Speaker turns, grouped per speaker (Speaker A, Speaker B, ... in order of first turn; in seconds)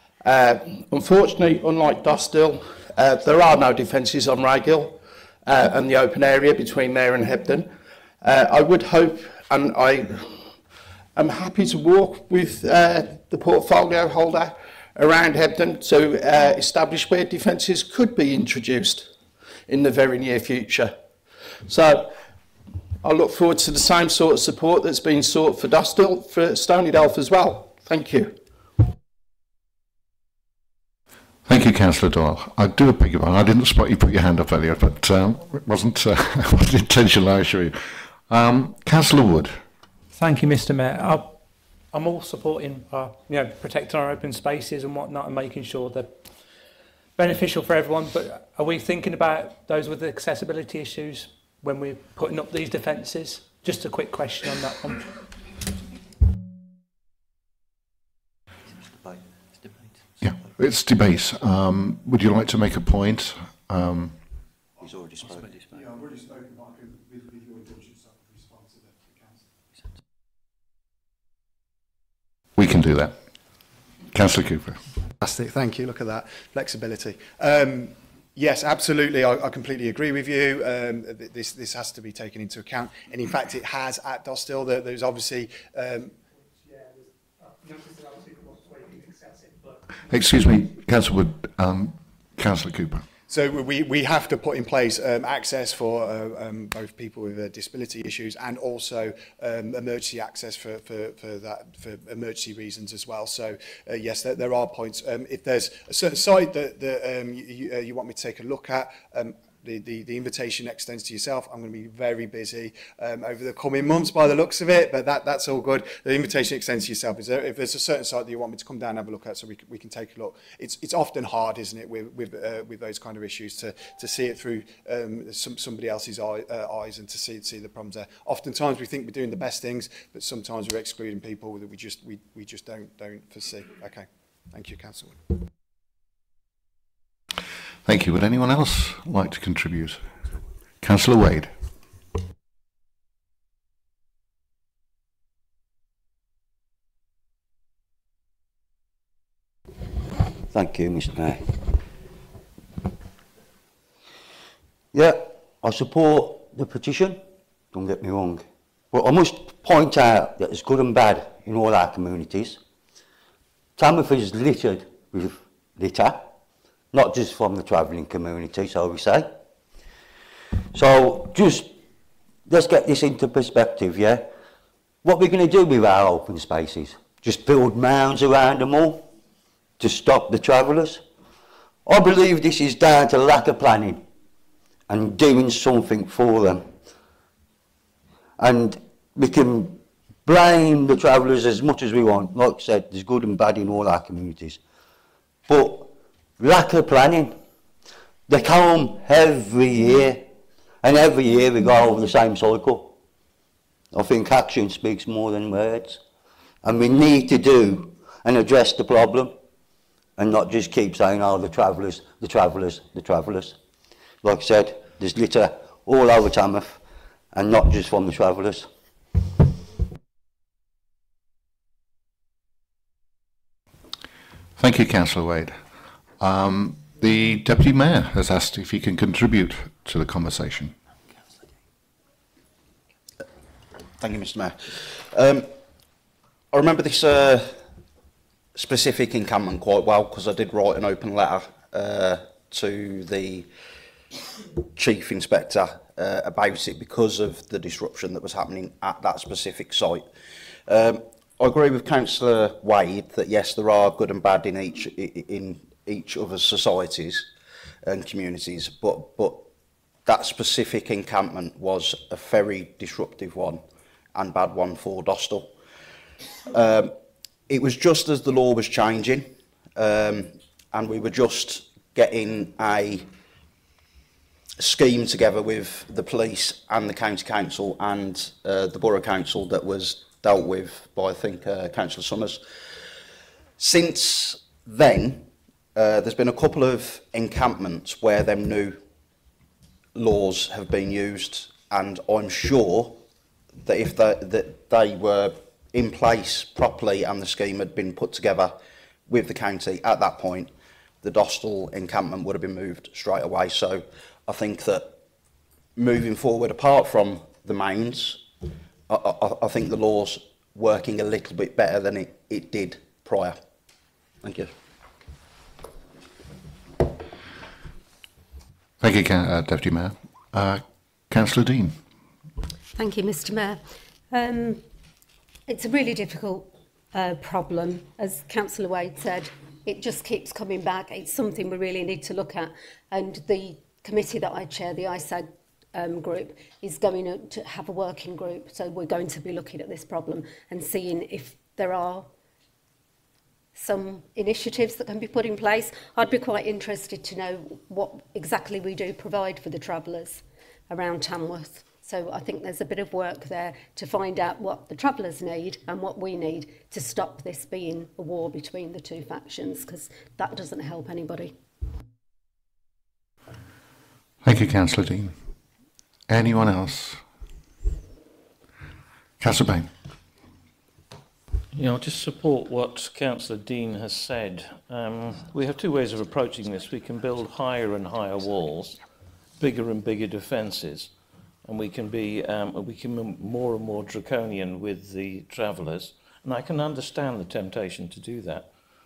Speaker A: 0.2-7.7, 8.2-10.6, 11.1-19.1, 19.7-20.9, 21.6-22.1, 23.0-28.4
Speaker B: 31.4-39.6, 60.2-64.2, 72.5-73.2, 74.1-74.8, 90.0-93.0, 137.8-140.0, 140.8-141.5, 224.6-225.6, 226.2-230.7, 318.8-321.8, 364.2-365.1, 366.1-367.0, 369.2-369.7
Speaker C: 40.1-41.4, 41.9-46.2, 47.1-55.1
Speaker D: 64.8-65.5, 150.5-151.6, 154.9-157.2, 157.7-162.6, 163.8-166.3, 166.9-169.3, 170.7-171.7, 172.5-174.3, 175.0-179.1, 179.8-181.0, 181.8-184.0, 184.9-186.7, 188.4-194.6, 195.5-197.4, 198.3-200.3, 200.8-202.9, 203.9-206.0, 206.6-209.3, 210.2-213.6, 214.2-216.8, 217.3-218.7
Speaker E: 65.7-69.4, 75.2-86.1, 93.3-135.2
Speaker F: 234.0-235.5, 236.5-237.6, 238.5-243.4, 244.6-250.1, 250.7-257.3, 257.8-259.5, 260.1-263.6, 264.1-265.5, 266.5-266.9, 267.5-273.1, 274.6-282.4, 283.6-288.8, 289.9-293.0, 293.6-298.5, 299.1-300.5, 301.0-305.0, 305.8-308.2, 308.9-313.4, 314.2-314.5
Speaker G: 322.7-324.6, 325.5-342.1, 343.5-361.3
Speaker H: 371.5-378.8, 379.4-380.9, 381.4-388.5